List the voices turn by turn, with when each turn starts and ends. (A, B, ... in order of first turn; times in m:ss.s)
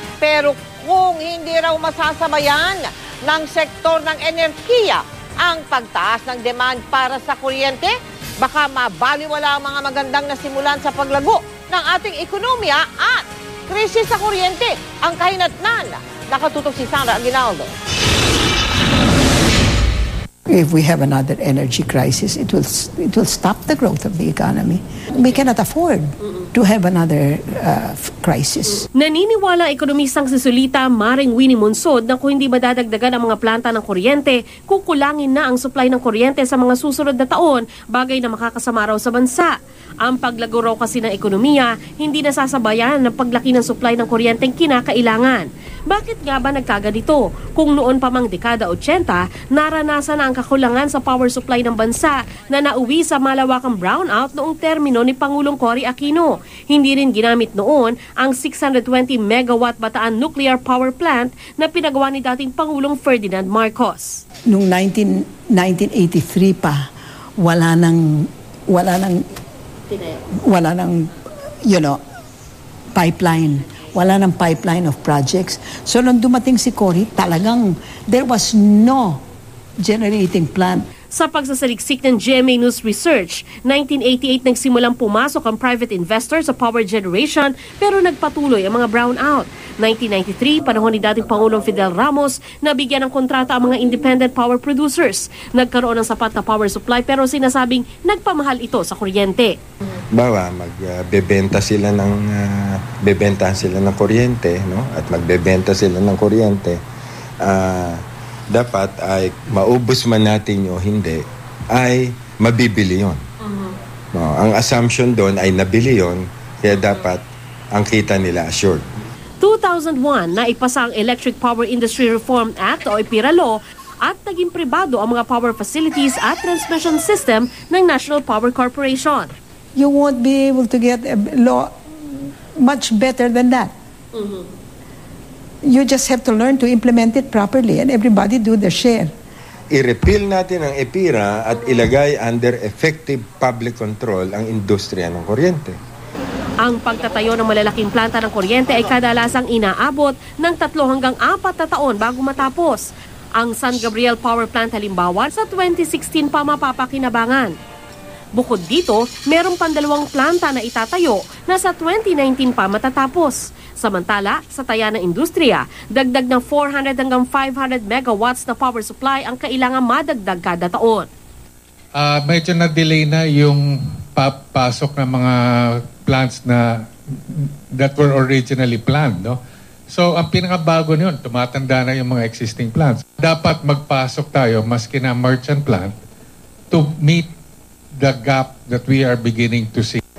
0:00.2-0:17.7 A
0:20.5-0:28.9 B
0:28.9-1:04.2 C
1:04.5-1:06.9 B
1:07.4-1:09.3 B
1:10.4-1:11.1 B
1:11.6-1:12.0 B
1:12.9-1:19.2 B
1:19.8-1:20.8 B
1:21.1-1:39.6 C
1:40.1-1:46.8 D
1:47.4-1:53.2 D
1:54.1-1:58.9 D
1:59.4-2:09.3 C
2:09.8-2:13.7 B
2:14.1-2:14.5 C
2:15.6-2:19.1 B
2:19.7-2:25.8 D
2:26.6-2:37.6 C
2:38.4-2:51.1 C
2:52.0-2:56.8 E
2:57.3-3:06.0 E
3:06.7-3:07.3 E
3:08.0-3:10.0 E